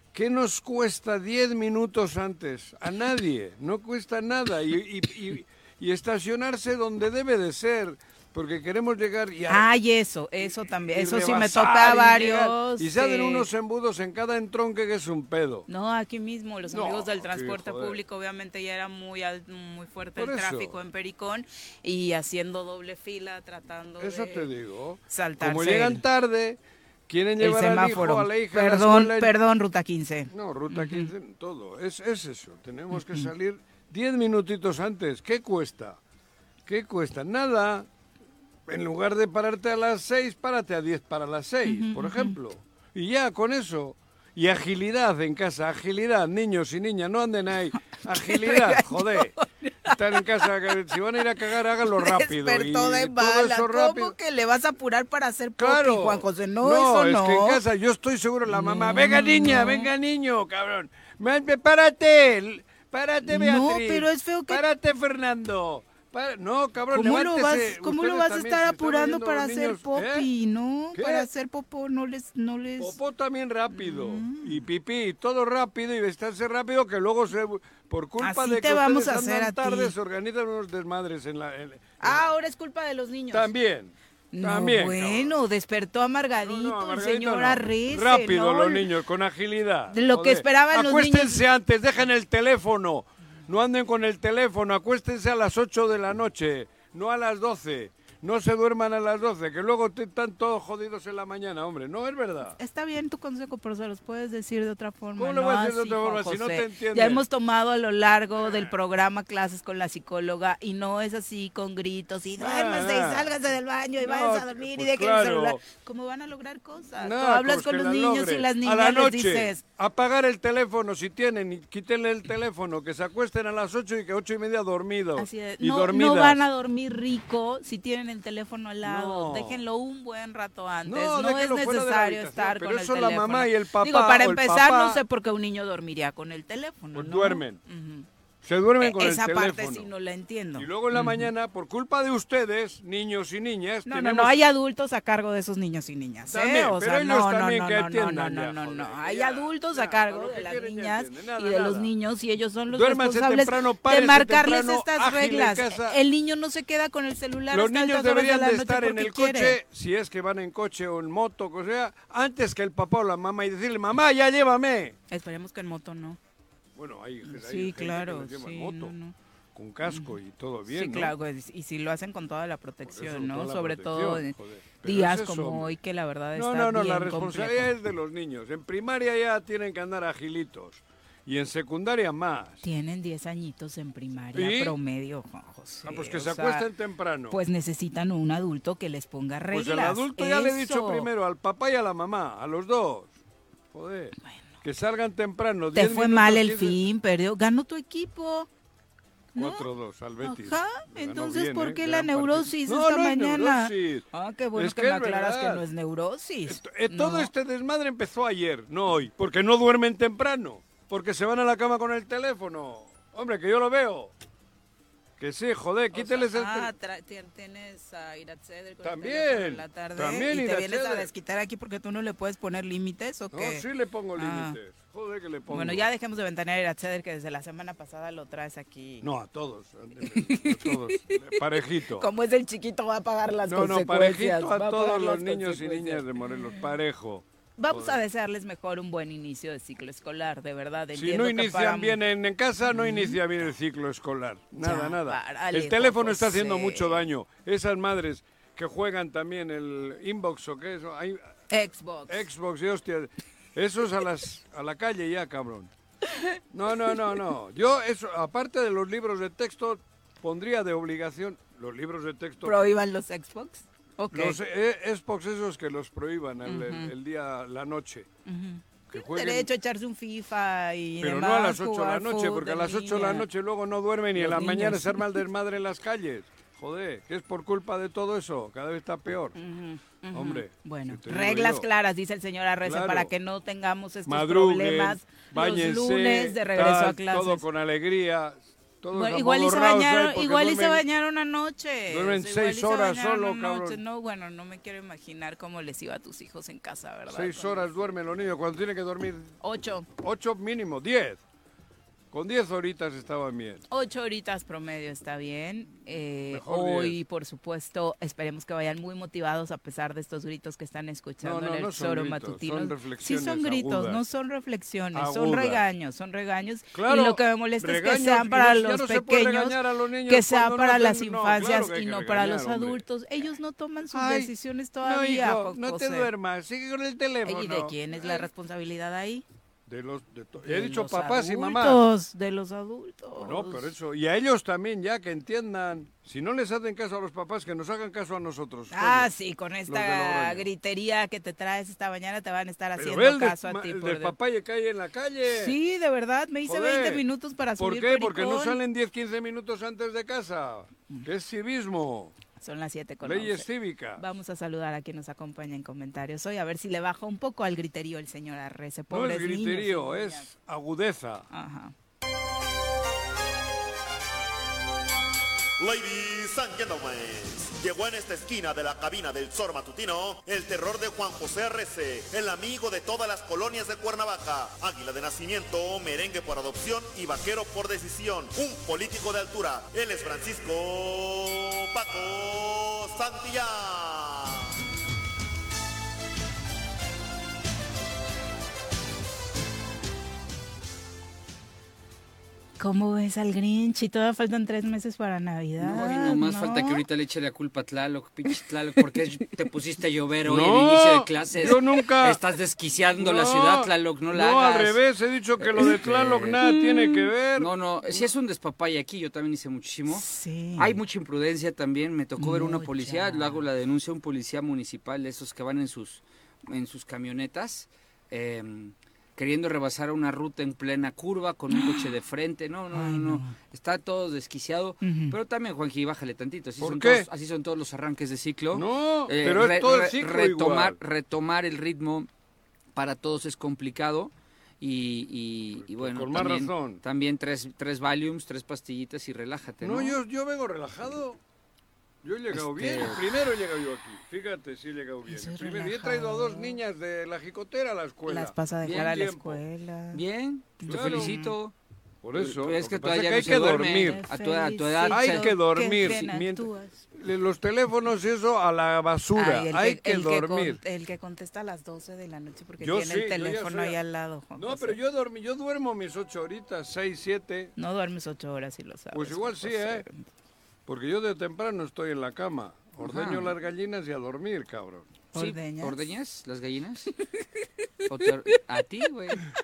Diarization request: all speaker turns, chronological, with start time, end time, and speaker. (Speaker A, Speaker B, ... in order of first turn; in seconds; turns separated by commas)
Speaker A: 0.1-9.7, Speaker B: 9.5-13.5, Speaker A: 10.4-15.7, Speaker B: 15.7-24.5, Speaker A: 16.7-18.0, Speaker A: 20.1-20.8, Speaker A: 24.0-29.3, Speaker B: 25.1-26.0, Speaker B: 27.4-31.1, Speaker A: 30.3-36.0, Speaker B: 32.9-33.3, Speaker A: 36.6-37.9, Speaker A: 38.7-49.3, Speaker B: 41.6-42.4, Speaker B: 48.2-50.5, Speaker A: 49.9-54.1, Speaker B: 51.8-57.6, Speaker A: 55.5-70.3, Speaker B: 58.5-59.9, Speaker B: 63.2-64.6, Speaker B: 66.9-73.0, Speaker A: 70.9-71.3, Speaker A: 72.8-82.3, Speaker B: 73.7-74.7, Speaker B: 78.2-79.9, Speaker B: 82.0-83.5, Speaker A: 83.3-85.4, Speaker B: 84.3-88.9, Speaker A: 86.4-102.6, Speaker B: 89.9-91.4, Speaker B: 102.6-119.6, Speaker A: 105.2-107.2, Speaker A: 108.4-108.7, Speaker A: 112.3-113.4, Speaker A: 114.0-115.6, Speaker A: 117.0-126.4, Speaker B: 125.2-138.1, Speaker A: 128.8-129.6, Speaker A: 130.8-135.0, Speaker A: 136.9-137.6, Speaker A: 138.4-139.9, Speaker B: 138.8-141.3, Speaker A: 140.6-144.4, Speaker B: 143.8-159.6, Speaker A: 146.3-151.9, Speaker A: 152.7-156.0, Speaker A: 157.5-165.0, Speaker B: 165.1-166.2, Speaker A: 166.8-168.9, Speaker B: 167.2-169.2, Speaker A: 169.5-171.1, Speaker B: 169.8-170.1, Speaker B: 170.7-177.7, Speaker A: 172.8-175.7, Speaker A: 176.3-182.6, Speaker B: 182.6-186.7, Speaker A: 184.3-184.8, Speaker A: 185.8-187.4, Speaker B: 187.3-191.1, Speaker A: 189.5-193.1, Speaker A: 193.7-196.8, Speaker B: 195.7-198.5, Speaker B: 199.3-199.7, Speaker A: 199.3-205.7, Speaker B: 200.2-207.3, Speaker A: 206.4-214.1, Speaker A: 215.2-216.7, Speaker B: 215.9-223.6, Speaker A: 218.8-221.1, Speaker A: 223.3-225.9, Speaker B: 224.2-224.6, Speaker B: 225.5-229.1, Speaker A: 229.0-232.1, Speaker B: 230.0-236.4, Speaker A: 233.4-238.0, Speaker B: 237.6-242.0, Speaker A: 240.9-251.2, Speaker B: 242.7-243.5, Speaker B: 244.6-247.0, Speaker B: 251.5-252.2, Speaker A: 252.1-255.7, Speaker A: 256.5-262.6, Speaker B: 262.4-264.4, Speaker A: 264.1-268.1, Speaker B: 266.4-266.9, Speaker B: 268.2-273.3, Speaker A: 268.9-269.5, Speaker A: 271.0-279.4, Speaker B: 274.1-275.2, Speaker B: 279.4-287.4, Speaker A: 280.1-281.7, Speaker A: 282.6-283.1, Speaker A: 284.1-290.8, Speaker B: 288.9-297.7, Speaker A: 291.9-293.8, Speaker A: 297.1-299.3, Speaker B: 299.4-299.9, Speaker A: 300.0-301.2, Speaker A: 302.1-303.6, Speaker B: 303.7-326.1, Speaker A: 306.2-307.0, Speaker A: 311.2-314.0, Speaker A: 314.9-315.6, Speaker A: 316.7-322.8, Speaker A: 323.9-328.3, Speaker B: 327.2-329.2, Speaker A: 329.7-331.8, Speaker B: 330.4-333.7, Speaker A: 333.1-339.1, Speaker B: 338.7-344.1, Speaker A: 339.7-340.5, Speaker A: 342.8-345.6, Speaker B: 345.2-348.6, Speaker A: 346.4-347.0, Speaker A: 347.6-352.1, Speaker B: 352.4-360.3, Speaker A: 353.0-354.0, Speaker A: 358.9-361.3, Speaker B: 361.3-361.7, Speaker C: 365.6-384.4, Speaker B: 392.6-396.8, Speaker D: 395.6-404.8, Speaker A: 400.2-402.2, Speaker A: 402.9-408.0, Speaker D: 405.4-406.4, Speaker B: 406.4-407.1, Speaker D: 407.4-410.1, Speaker B: 409.9-410.8, Speaker D: 410.6-432.1, Speaker B: 412.2-413.4, Speaker B: 421.5-421.8, Speaker B: 422.7-423.3, Speaker B: 424.8-425.1, Speaker A: 426.6-427.1, Speaker A: 428.5-430.8, Speaker D: 432.7-440.0, Speaker A: 435.6-436.8, Speaker A: 439.6-441.2, Speaker A: 442.0-449.4, Speaker D: 442.3-443.2, Speaker B: 445.1-446.6, Speaker B: 448.1-450.0, Speaker D: 448.6-449.1, Speaker D: 449.9-451.5, Speaker B: 450.6-451.4, Speaker A: 450.7-451.1, Speaker A: 452.0-454.0, Speaker D: 452.1-456.1, Speaker B: 453.4-456.8, Speaker A: 454.9-460.6, Speaker B: 459.1-464.8, Speaker A: 462.6-463.8, Speaker A: 464.3-467.5, Speaker B: 467.6-470.0, Speaker A: 468.9-469.8, Speaker A: 470.6-474.9, Speaker D: 472.8-473.3, Speaker B: 475.1-475.9, Speaker D: 475.1-476.9, Speaker D: 477.9-479.2